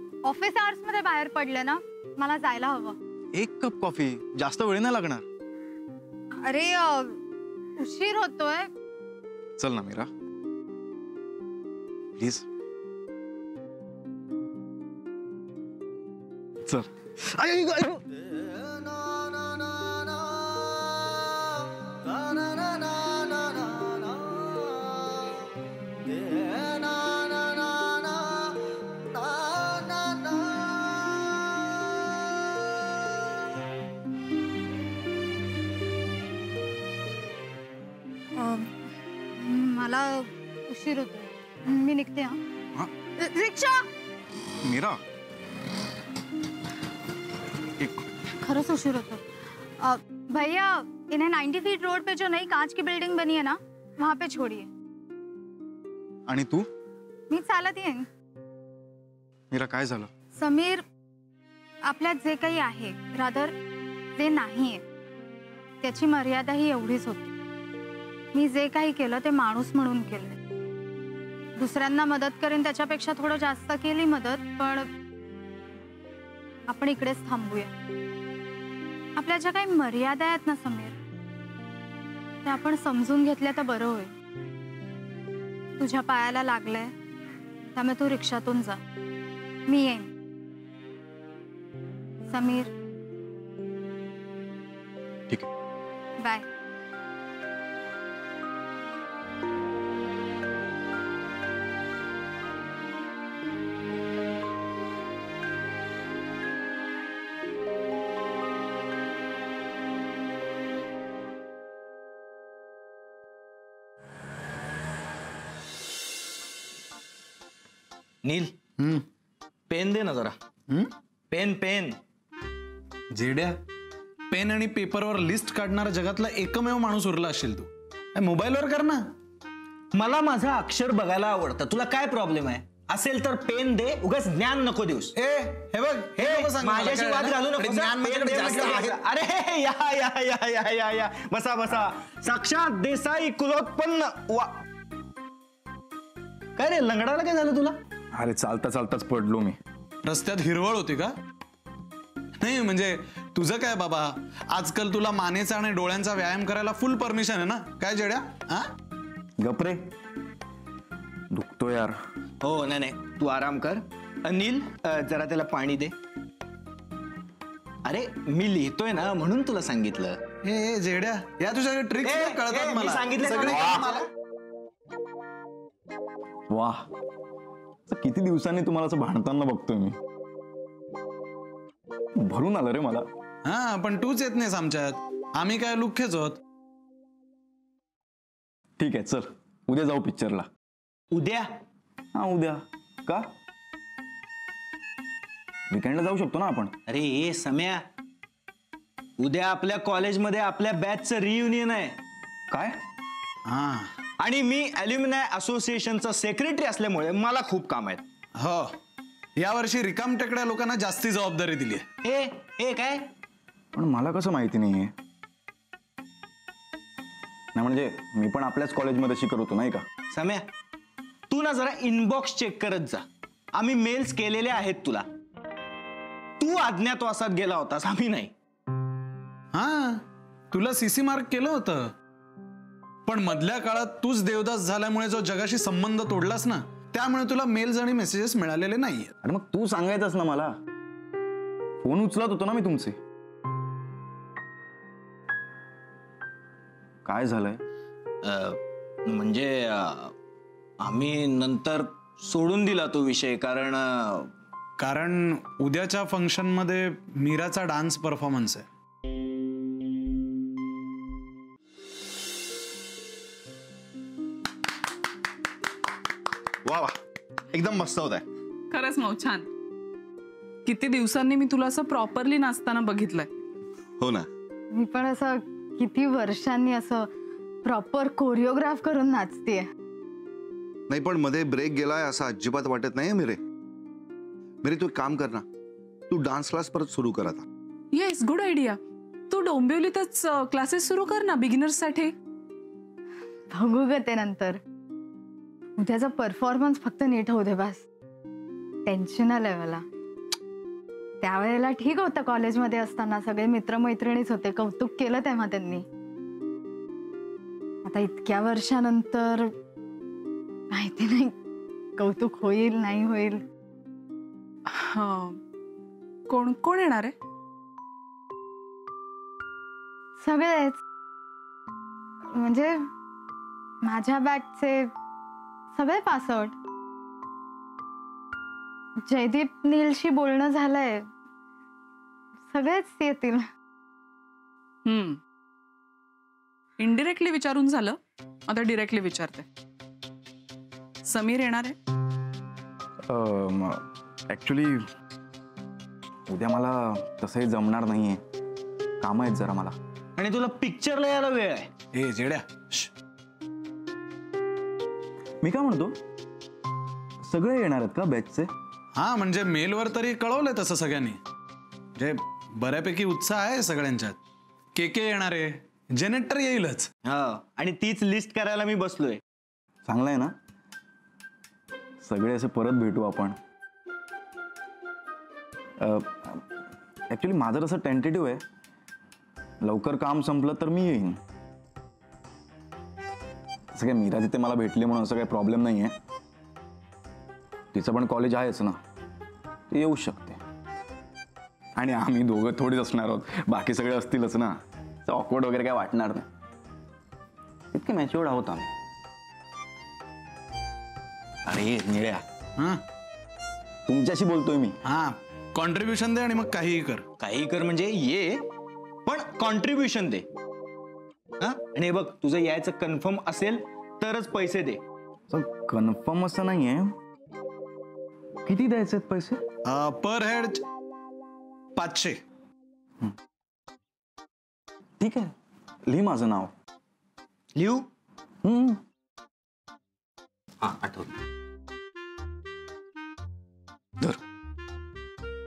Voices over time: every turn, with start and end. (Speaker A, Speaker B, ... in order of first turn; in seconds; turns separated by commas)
Speaker A: 0.2-3.0, Speaker B: 3.3-5.2, Speaker A: 6.4-7.2, Speaker A: 7.8-8.7, Speaker B: 9.6-10.1, Speaker B: 12.2-12.5, Speaker B: 16.7-18.0, Speaker A: 38.4-38.7, Speaker A: 39.4-42.4, Speaker A: 43.2-43.9, Speaker B: 44.6-45.0, Speaker A: 48.4-49.2, Speaker A: 49.8-54.7, Speaker B: 56.3-56.6, Speaker A: 57.3-58.1, Speaker B: 59.5-60.1, Speaker A: 60.3-60.8, Speaker A: 61.9-63.5, Speaker A: 64.2-64.8, Speaker A: 65.8-67.3, Speaker A: 68.3-70.4, Speaker A: 71.6-74.9, Speaker A: 76.7-77.7, Speaker A: 79.2-81.0, Speaker A: 82.4-84.1, Speaker A: 85.8-86.9, Speaker A: 87.7-88.8, Speaker A: 89.7-90.1, Speaker A: 92.3-92.7, Speaker A: 96.2-96.5, Speaker C: 118.2-118.5, Speaker D: 118.8-119.0, Speaker C: 119.7-120.4, Speaker C: 121.3-122.0, Speaker D: 123.1-123.6, Speaker D: 124.3-129.1, Speaker C: 129.9-135.1, Speaker D: 135.2-139.0, Speaker C: 136.0-144.6, Speaker C: 146.6-147.8, Speaker B: 148.1-149.6, Speaker D: 150.0-151.1, Speaker D: 152.4-158.6, Speaker B: 159.4-159.9, Speaker B: 161.3-162.0, Speaker C: 162.4-165.9, Speaker C: 167.8-170.2, Speaker D: 170.4-174.0, Speaker C: 172.0-174.1, Speaker B: 176.5-176.9, Speaker B: 177.9-179.9, Speaker B: 182.2-183.1, Speaker D: 183.5-186.4, Speaker B: 188.8-190.5, Speaker C: 191.1-191.5, Speaker B: 192.1-193.3, Speaker B: 195.7-196.7, Speaker C: 196.9-197.8, Speaker C: 199.2-202.0, Speaker B: 202.5-202.8, Speaker D: 203.5-203.9, Speaker C: 204.2-208.0, Speaker D: 208.4-208.7, Speaker D: 209.4-211.9, Speaker C: 212.0-213.1, Speaker B: 213.7-214.9, Speaker B: 217.6-219.8, Speaker C: 220.1-220.5, Speaker C: 221.3-225.1, Speaker C: 226.4-228.3, Speaker D: 229.5-231.9, Speaker D: 233.1-239.1, Speaker B: 239.2-240.5, Speaker B: 241.8-243.0, Speaker B: 247.1-247.6, Speaker C: 248.2-250.1, Speaker C: 250.8-254.3, Speaker D: 254.8-258.7, Speaker C: 266.6-266.9, Speaker C: 267.5-268.2, Speaker E: 268.7-269.5, Speaker E: 270.6-273.3, Speaker F: 274.0-274.3, Speaker A: 274.7-277.1, Speaker A: 277.6-279.7, Speaker F: 280.9-283.4, Speaker F: 284.6-285.4, Speaker F: 286.1-287.4, Speaker E: 287.9-288.8, Speaker E: 289.3-292.1, Speaker A: 293.5-294.6, Speaker A: 295.8-297.8, Speaker A: 298.9-299.8, Speaker A: 301.2-305.9, Speaker A: 307.8-309.5, Speaker A: 310.7-311.4, Speaker A: 312.0-313.4, Speaker E: 314.7-315.4, Speaker E: 316.3-317.1, Speaker A: 320.2-320.8, Speaker A: 322.3-322.9, Speaker A: 323.8-324.9, Speaker A: 325.7-326.6, Speaker A: 329.1-331.1, Speaker A: 332.5-333.4, Speaker E: 334.9-335.2, Speaker E: 336.8-339.5, Speaker E: 341.1-341.8, Speaker B: 343.1-343.8, Speaker B: 344.3-344.8, Speaker B: 346.3-348.2, Speaker B: 349.0-349.8, Speaker C: 350.2-351.7, Speaker D: 351.9-352.9, Speaker B: 355.4-355.9, Speaker B: 357.2-358.5, Speaker D: 359.0-361.2, Speaker D: 362.0-364.2, Speaker D: 364.8-366.9, Speaker C: 367.1-369.2, Speaker B: 369.9-370.3, Speaker B: 372.0-373.4, Speaker B: 375.8-376.4, Speaker B: 377.1-378.4, Speaker B: 379.6-381.2, Speaker B: 383.8-385.9, Speaker B: 387.7-388.8, Speaker B: 389.7-390.4, Speaker B: 391.8-396.2, Speaker B: 397.7-398.7, Speaker B: 401.5-402.2, Speaker B: 403.9-404.8, Speaker D: 404.9-407.0, Speaker C: 407.2-408.5, Speaker C: 409.1-410.3, Speaker C: 411.4-414.8, Speaker B: 415.3-416.9, Speaker B: 418.5-419.4, Speaker D: 419.7-420.6, Speaker D: 421.8-422.2, Speaker B: 425.0-425.3, Speaker B: 425.9-426.5, Speaker C: 427.6-427.9, Speaker B: 428.4-428.8, Speaker C: 430.6-431.1